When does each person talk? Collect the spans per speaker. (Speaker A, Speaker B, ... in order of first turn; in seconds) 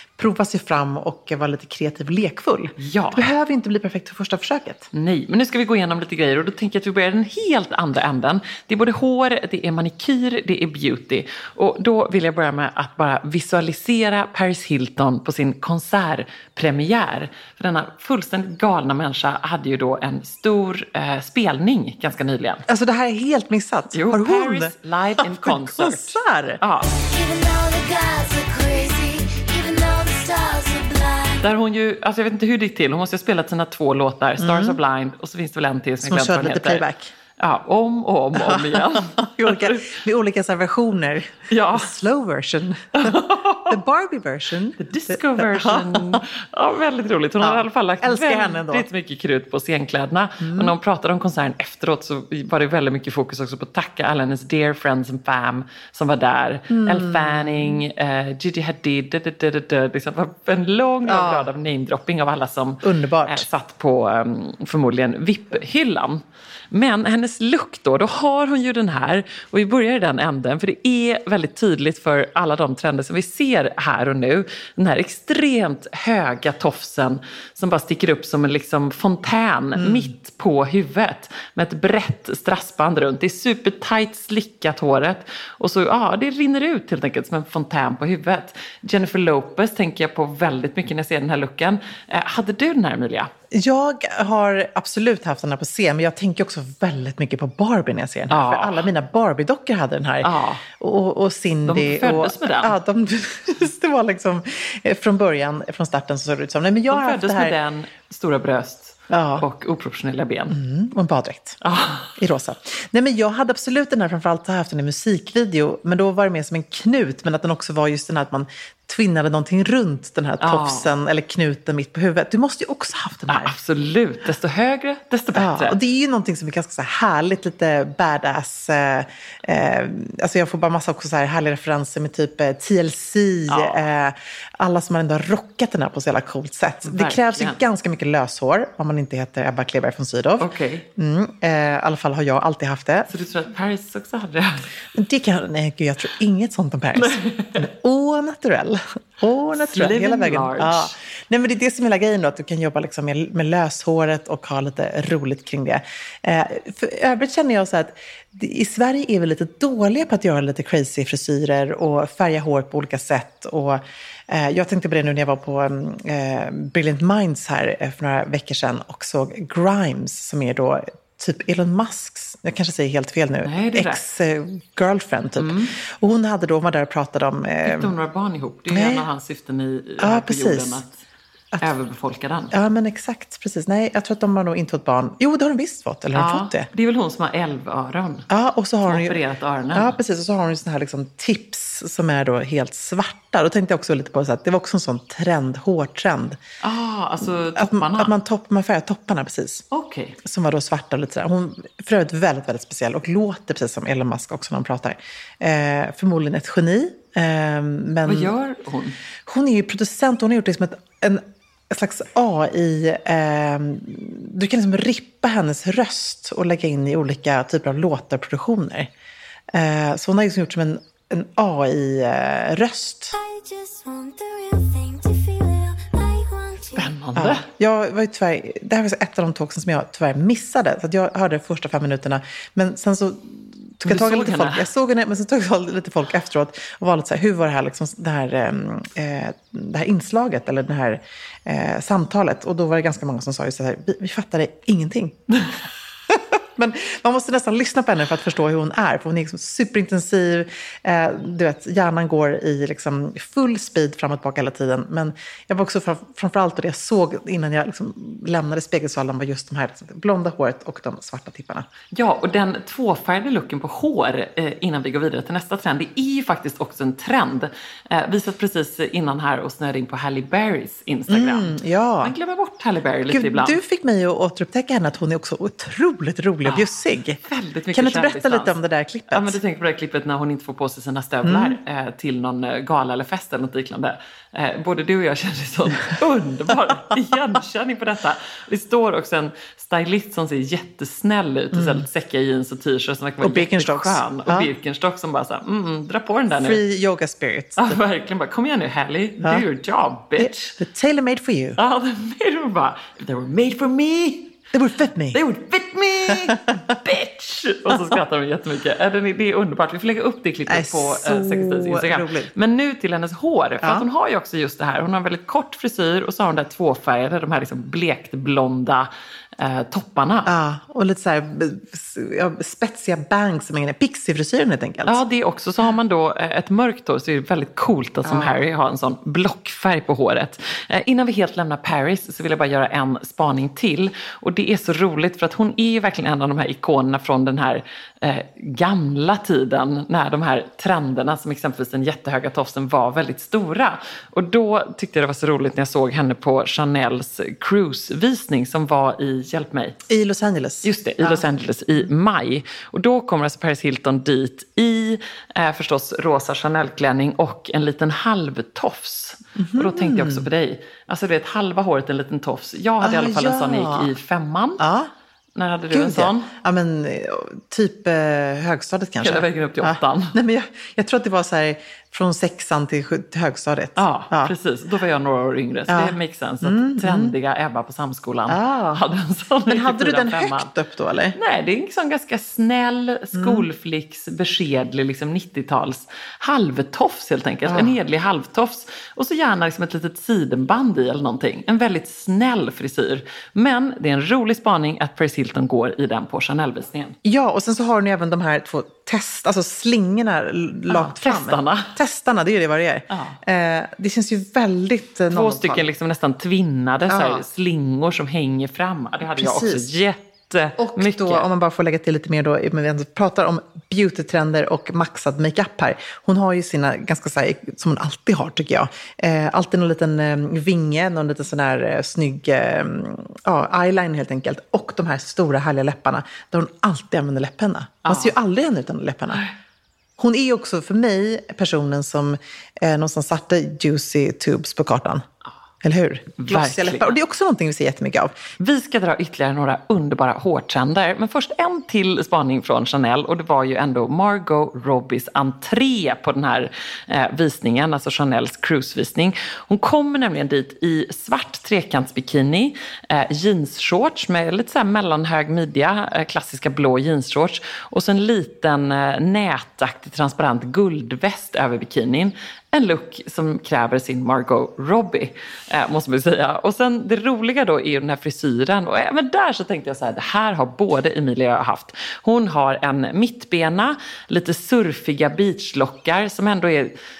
Speaker A: 0.2-4.9, 22.7-26.6, 34.4-34.8, 36.0-37.1, 38.4-46.2, 47.4-48.9, 50.4-50.7, 56.7-57.8, 61.0-61.5, 62.8-63.5, 79.8-80.1, 93.5-107.5, 109.1-109.5, 110.5-111.6, 112.2-123.5, 125.3-143.1, 144.9-177.9, 178.7-179.1, 180.0-180.8, 182.5-186.7, 188.3-189.2, 189.7-196.4, 197.6-199.6, 200.2-208.3, 209.3-218.9, 219.5-223.1, 227.2-245.4, 246.1-261.7, 271.1-272.1, 273.1-277.2, 277.7-279.4, 281.2-281.6, 291.5-291.9, 293.2-294.5, 296.3-297.8, 300.2-301.6, 304.5-305.2, 306.1-306.3, 307.7-308.0, 310.5-312.3, 320.3-325.0, 328.1-328.4, 349.9-351.2, 359.4-360.3, 362.8-363.9, 364.6-364.9, 365.7-374.3, 375.7-377.1, 378.3-378.8, 379.5-381.2, 383.1-383.5, 387.5-387.8, 397.0-405.6, 406.9-407.2, 409.1-409.7, 410.6-429.2, 430.0-435.0, 435.6-438.1
Speaker B: 2.8-3.3, 4.9-22.7, 23.9-26.9, 31.4-36.8, 37.4-40.0, 41.5-41.9, 43.0-43.8, 44.8-93.3, 98.3-98.8, 100.2-100.6, 101.7-102.8, 106.9-110.6, 111.6-112.1, 120.4-120.9, 123.3-125.8, 133.5-133.8, 136.9-137.6, 140.4-140.9, 143.1-144.7, 147.0-147.7, 149.6-150.9, 173.4-174.0, 175.4-175.8, 177.7-180.9, 181.6-182.5, 186.2-188.3, 188.9-190.0, 196.6-198.1, 199.7-200.2, 208.1-209.0, 226.8-227.5, 233.8-234.7, 261.9-273.6, 277.2-278.6, 279.1-296.6, 297.6-300.5, 301.6-304.4, 305.1-320.3, 324.9-349.8, 350.6-364.6, 365.4-366.3, 369.0-370.1, 373.8-380.5, 381.1-396.9, 400.7-401.7, 402.9-403.2, 405.1-411.3, 427.9-428.1, 436.2-436.9, 438.4-476.8
Speaker C: 26.9-31.4, 223.1-226.9